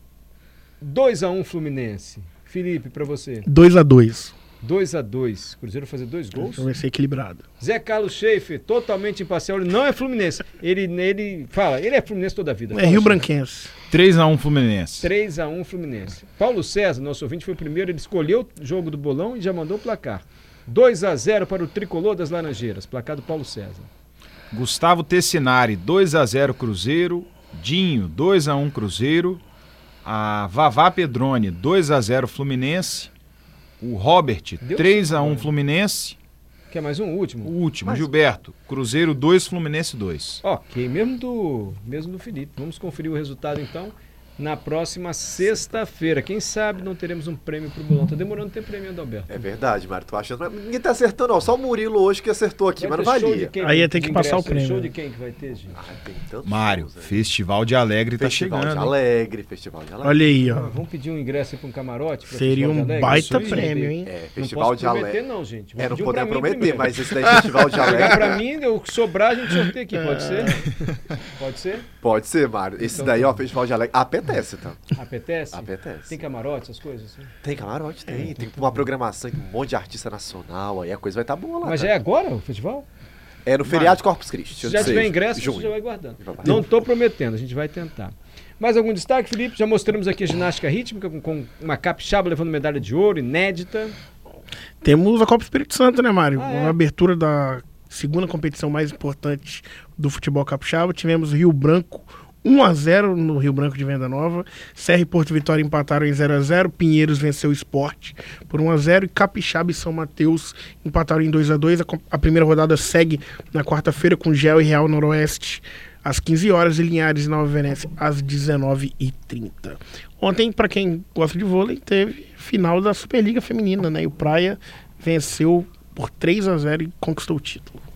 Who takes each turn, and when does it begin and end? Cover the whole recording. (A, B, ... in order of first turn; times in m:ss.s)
0:00.8-0:03.5 A
0:03.4-0:04.3 B
0:04.6-0:06.7 A
0:06.3-0:07.4 B
0:07.6-0:13.2 A
0:12.7-0:13.7 B
0:13.9-0:15.1 C
0:15.0-0:23.9 A
0:24.5-0:29.4 C
0:30.0-0:33.1 C
0:33.8-0:36.2 C
0:34.6-0:35.5 A
0:36.7-0:37.5 A
0:37.4-0:40.4 C
0:37.8-0:38.1 D
0:40.4-0:49.4 A
0:49.3-0:53.5 D
0:52.8-0:55.8 A
0:53.6-0:54.9 B
0:55.7-0:57.2 D
0:56.4-0:59.0 C
0:58.2-1:00.2 D
1:00.0-1:00.8 B
1:00.4-1:07.0 A
1:02.3-1:04.1 B
1:03.1-1:03.7 C
1:04.0-1:05.2 D
1:05.8-1:08.4 D
1:07.7-1:10.7 A
1:10.0-1:10.7 B
1:11.4-1:11.9 A
1:12.0-1:14.9 D
1:12.8-1:13.4 A
1:14.9-1:17.3 A
1:15.5-1:16.2 D
1:17.4-1:21.9 D
1:18.1-1:18.3 B
1:21.6-1:22.8 A
1:23.4-1:26.6 D
1:23.6-1:24.0 C
1:24.6-1:33.9 A
1:34.8-2:07.8 B
1:36.4-1:36.8 A